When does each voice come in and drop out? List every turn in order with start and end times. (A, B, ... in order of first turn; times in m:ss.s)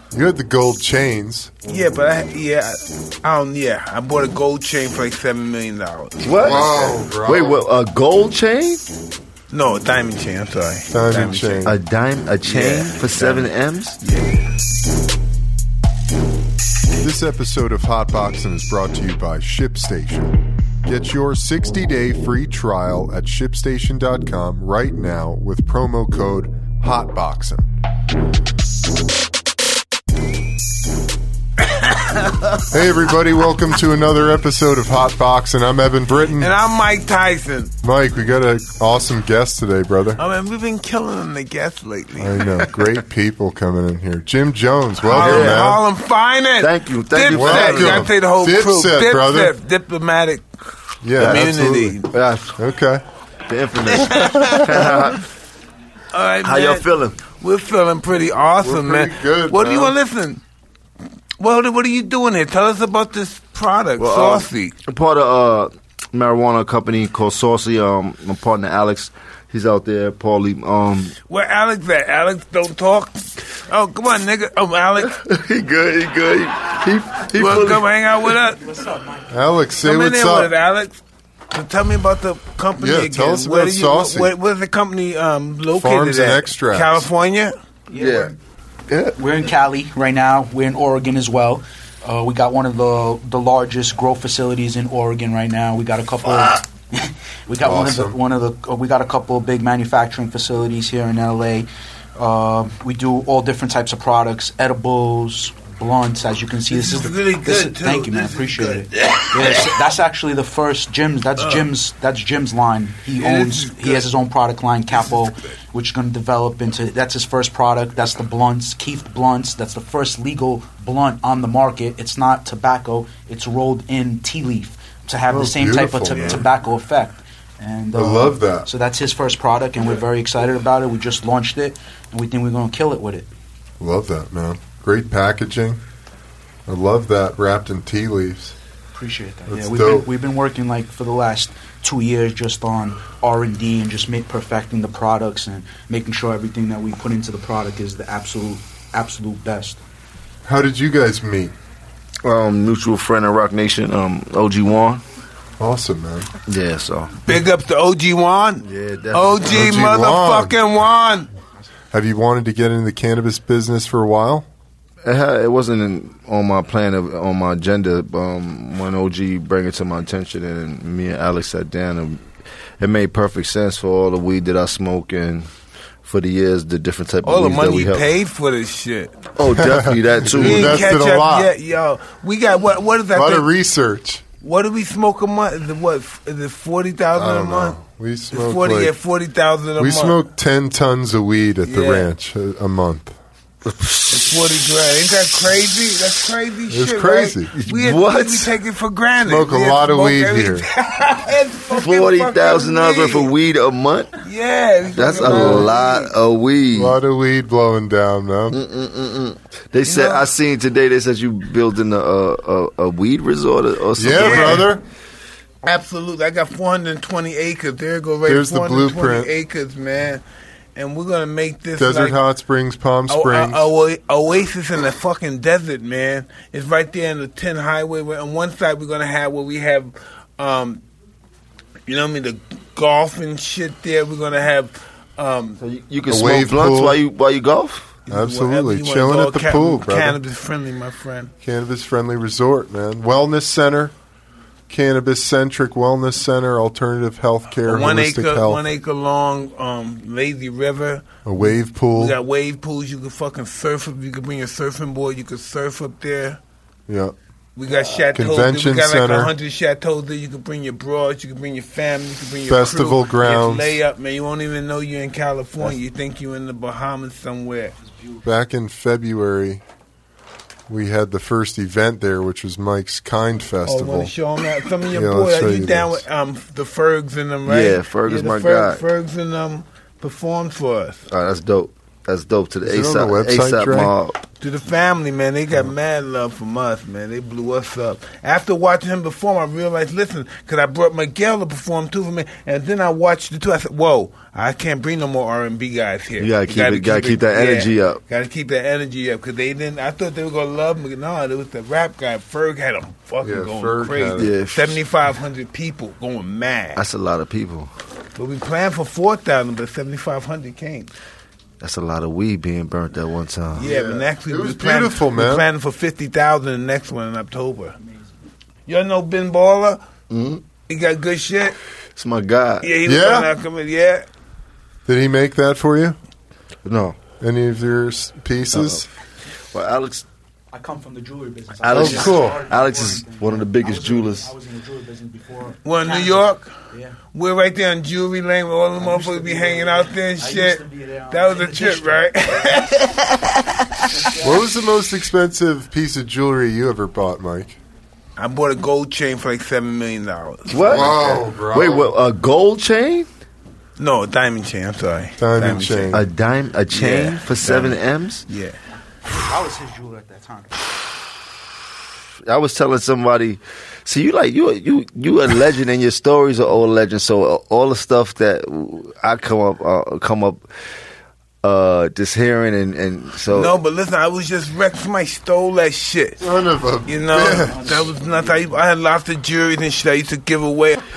0:00.1-0:01.6 A
0:01.6-0:06.3 B
0:06.2-0:08.8 C
0:06.4-0:07.6 A
0:09.5-0:11.7 B
0:10.9-0:11.7 A
0:11.6-0:14.0 C
0:12.4-0:13.5 B
0:14.0-0:14.4 B
0:17.0-0:27.7 A
0:31.7-0:32.6 B
0:32.7-0:36.5 A
0:36.3-0:37.7 B
0:37.8-0:40.2 A
0:40.2-0:42.9 B
0:42.2-0:45.8 A
0:45.0-0:50.4 B
0:45.1-0:45.8 C
0:46.6-0:48.1 C
0:47.3-0:49.5 A
0:51.0-0:52.0 A
0:51.2-0:51.5 C
0:51.2-0:52.1 B
0:52.0-0:52.6 C
0:52.6-0:53.0 A
0:53.5-0:55.2 C
0:53.9-0:55.0 B
0:56.1-1:00.4 B
0:56.4-0:57.2 C
0:58.6-0:59.9 A
1:01.4-1:04.7 B
1:04.0-1:11.2 C
1:11.3-1:15.2 B
1:15.0-1:17.9 C
1:17.3-1:18.6 B
1:18.6-1:19.6 D
1:19.3-1:20.5 A
1:19.8-1:27.5 B
1:22.8-1:24.3 A
1:25.7-1:27.0 A
1:27.9-1:28.3 D
1:28.0-1:28.3 C
1:28.9-1:29.1 C
1:29.2-2:13.3 D
1:37.6-1:38.2 A
1:46.7-1:49.8 B
1:51.4-1:51.7 B
1:53.2-1:54.0 B
1:54.9-1:55.3 B
2:05.3-2:06.5 A
2:07.9-2:08.7 A
2:13.8-2:15.8 A
2:16.7-2:18.5 A
2:18.9-2:29.8 D
2:19.5-2:20.1 A
2:30.4-2:31.5 A
2:32.2-2:35.0 C
2:35.6-2:36.3 A
2:36.5-2:37.2 C
2:37.2-2:41.3 B
2:38.6-2:39.6 C
2:39.4-2:40.5 A
2:41.9-2:44.5 A
2:45.0-2:52.2 C
2:52.8-2:55.5 C
2:56.0-2:58.0 C
2:57.2-2:59.3 B
2:59.4-3:00.9 C
2:59.6-3:01.5 A
3:00.3-3:03.5 B
3:03.1-3:04.2 A
3:04.4-3:07.8 B
3:07.2-3:08.9 A
3:08.3-3:10.2 B
3:09.8-3:13.2 A
3:11.6-3:12.1 B
3:13.6-3:14.4 C
3:14.1-3:23.3 B
3:16.7-3:17.5 A
3:17.6-3:18.5 C
3:19.2-3:20.7 A
3:21.8-3:24.1 C
3:24.2-3:26.1 B
3:24.9-3:27.0 C
3:25.2-3:25.7 A
3:26.7-3:28.6 A
3:28.5-3:34.7 C
3:29.8-3:30.2 B
3:34.0-3:34.8 A
3:34.2-3:34.7 B
3:35.6-3:40.2 B
3:38.2-3:39.3 A
3:40.8-3:42.2 B
3:41.8-3:43.7 A
3:43.1-3:50.8 B
3:51.9-3:55.6 B
3:55.6-3:57.9 C
3:56.1-3:57.0 A
3:58.0-4:01.3 B
3:58.1-4:00.2 A
4:01.4-4:03.9 A
4:04.7-4:08.6 A
4:07.6-4:16.4 B
4:11.2-4:12.2 A
4:16.9-4:17.1 A
4:17.6-4:27.7 B
4:18.1-4:19.3 A
4:22.5-4:23.7 A
4:28.2-4:29.6 A
4:30.7-4:34.1 A
4:33.6-4:41.1 B
4:34.9-4:36.0 A
4:37.4-4:38.8 C
4:41.1-4:44.2 C
4:42.6-4:43.9 A
4:44.4-5:06.8 B
4:56.2-4:58.0 C
5:03.2-5:04.4 A
5:04.2-5:04.8 C
5:06.8-5:07.7 C
5:08.1-5:10.9 B
5:11.6-5:13.7 C
5:13.6-5:17.8 B
5:13.6-5:15.5 A
5:18.7-5:19.8 B
5:20.1-5:20.4 C
5:20.7-5:21.6 B
5:22.0-5:22.7 C
5:22.6-5:24.0 B
5:22.8-5:23.3 A
5:24.8-5:26.0 A
5:26.6-5:27.0 C
5:27.2-5:28.9 A
5:28.5-5:28.8 C
5:29.5-5:30.0 C
5:30.5-5:37.0 D
5:31.6-5:34.3 C
5:31.7-5:32.4 A
5:35.6-5:36.5 B
5:37.1-5:43.9 B
5:38.8-5:42.5 D
5:43.9-5:44.4 D
5:44.2-5:47.6 A
5:48.2-5:51.0 B
5:50.5-5:53.1 C
5:50.6-5:51.9 A
5:53.8-5:56.0 B
5:55.2-5:56.0 A
5:55.9-5:58.2 C
5:56.7-5:58.6 B
5:59.0-6:00.7 D
6:02.2-6:10.5 C
6:11.4-6:13.6 C
6:13.3-6:16.2 B
6:16.2-6:17.7 A
6:16.8-6:20.8 B
6:17.3-6:18.5 D